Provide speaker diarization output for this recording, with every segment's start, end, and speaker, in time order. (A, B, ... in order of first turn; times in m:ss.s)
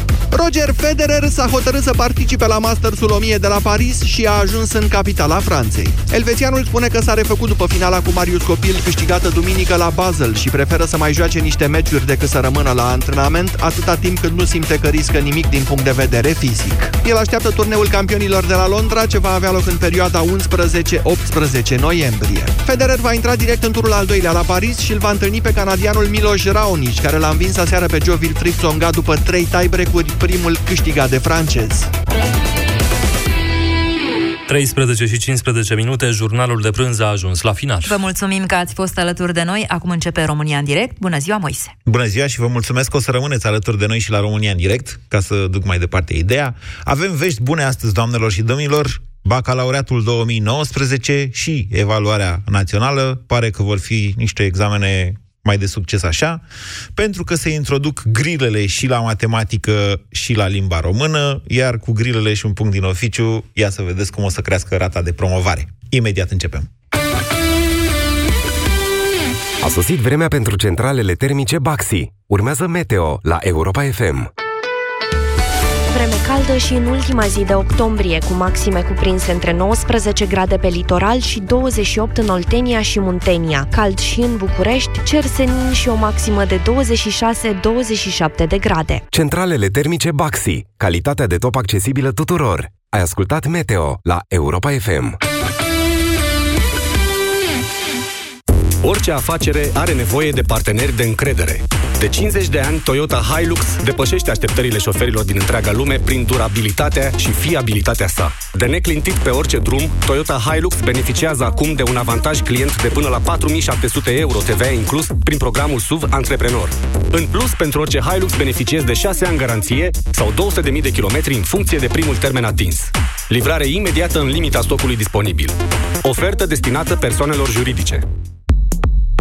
0:00.3-0:31.9 A
0:34.5-0:38.0 B
0:37.8-0:41.7 C
0:41.8-0:56.4 D
0:56.9-1:06.7 D
1:09.6-1:14.3 E
1:15.9-1:29.0 F
1:29.1-1:35.2 E
1:38.8-2:08.0 G